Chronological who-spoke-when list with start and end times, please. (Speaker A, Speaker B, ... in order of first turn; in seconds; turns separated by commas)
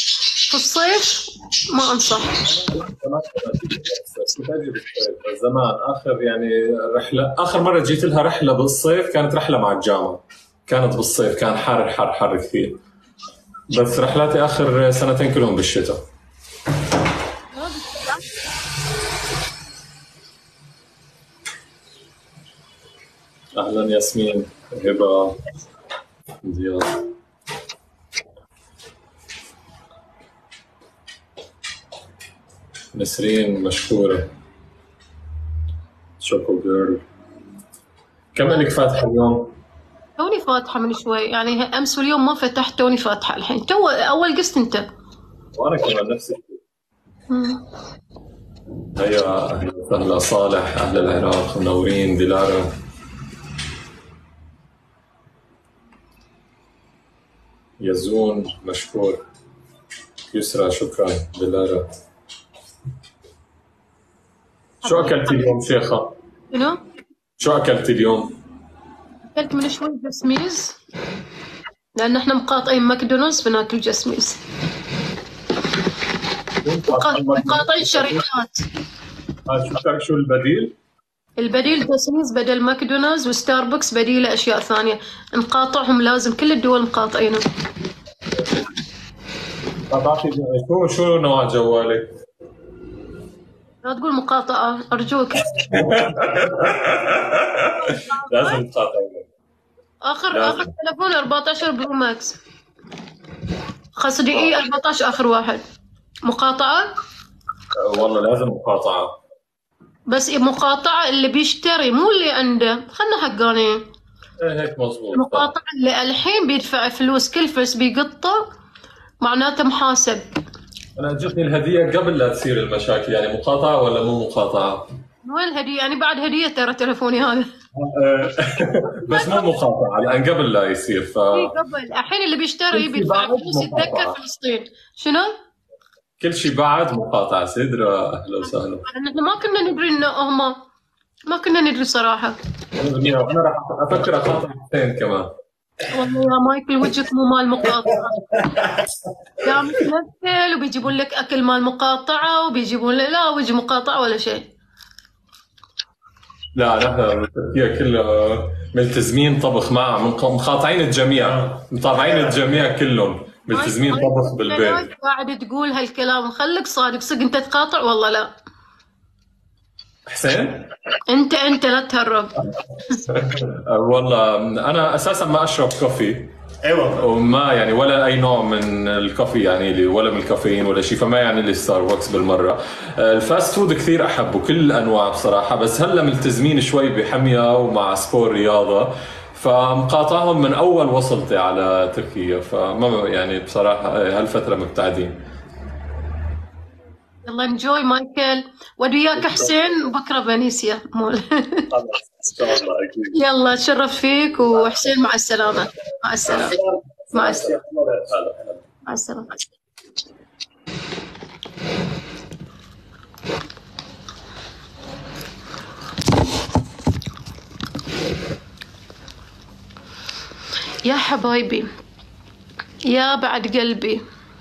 Speaker A: 0.5-2.4, Speaker B: 2.4-12.8, Speaker B: 13.7-16.0, Speaker A: 17.5-18.2, Speaker B: 23.5-25.4, Speaker B: 26.4-27.1, Speaker B: 32.9-34.3, Speaker B: 36.2-37.0, Speaker B: 38.3-39.5, Speaker A: 40.2-44.8, Speaker B: 45.5-46.6, Speaker A: 47.3-47.6, Speaker B: 48.9-52.7, Speaker B: 57.8-59.2, Speaker B: 60.3-61.9, Speaker A: 64.8-65.5, Speaker B: 64.8-66.2, Speaker A: 66.5-66.8, Speaker B: 67.4-68.3, Speaker A: 69.3-70.8, Speaker A: 72.0-74.4, Speaker B: 76.6-78.3, Speaker A: 76.9-78.6, Speaker B: 79.5-80.8, Speaker A: 81.4-87.4, Speaker B: 89.9-92.1, Speaker A: 93.8-95.5, Speaker B: 95.4-99.3, Speaker A: 97.8-98.6, Speaker A: 100.0-102.4, Speaker B: 100.3-100.7, Speaker A: 104.0-105.6, Speaker B: 104.3-104.6, Speaker A: 106.2-106.9, Speaker B: 107.7-109.2, Speaker A: 110.1-113.8, Speaker B: 114.4-115.5, Speaker A: 115.1-118.4, Speaker A: 119.2-120.2, Speaker B: 121.0-124.9, Speaker A: 125.2-127.5, Speaker B: 127.7-131.5, Speaker A: 129.1-129.5, Speaker A: 131.3-135.3, Speaker B: 132.7-134.2, Speaker B: 136.2-138.8, Speaker A: 138.8-140.6, Speaker A: 141.3-142.4, Speaker B: 142.8-145.3, Speaker A: 145.9-148.4, Speaker C: 148.6-148.8, Speaker A: 149.4-154.5, Speaker B: 156.5-164.9, Speaker C: 161.3-162.3, Speaker A: 163.5-168.3, Speaker B: 170.1-170.7, Speaker A: 171.1-173.0, Speaker B: 173.1-176.3, Speaker C: 176.6-177.0, Speaker B: 176.9-195.2, Speaker A: 197.2-201.7, Speaker B: 199.1-199.7, Speaker B: 201.7-203.2, Speaker A: 203.1-206.6, Speaker C: 206.3-206.6, Speaker B: 207.1-208.6, Speaker A: 207.1-207.5, Speaker C: 207.2-207.6, Speaker A: 208.8-209.4, Speaker A: 220.8-221.7, Speaker A: 222.9-224.0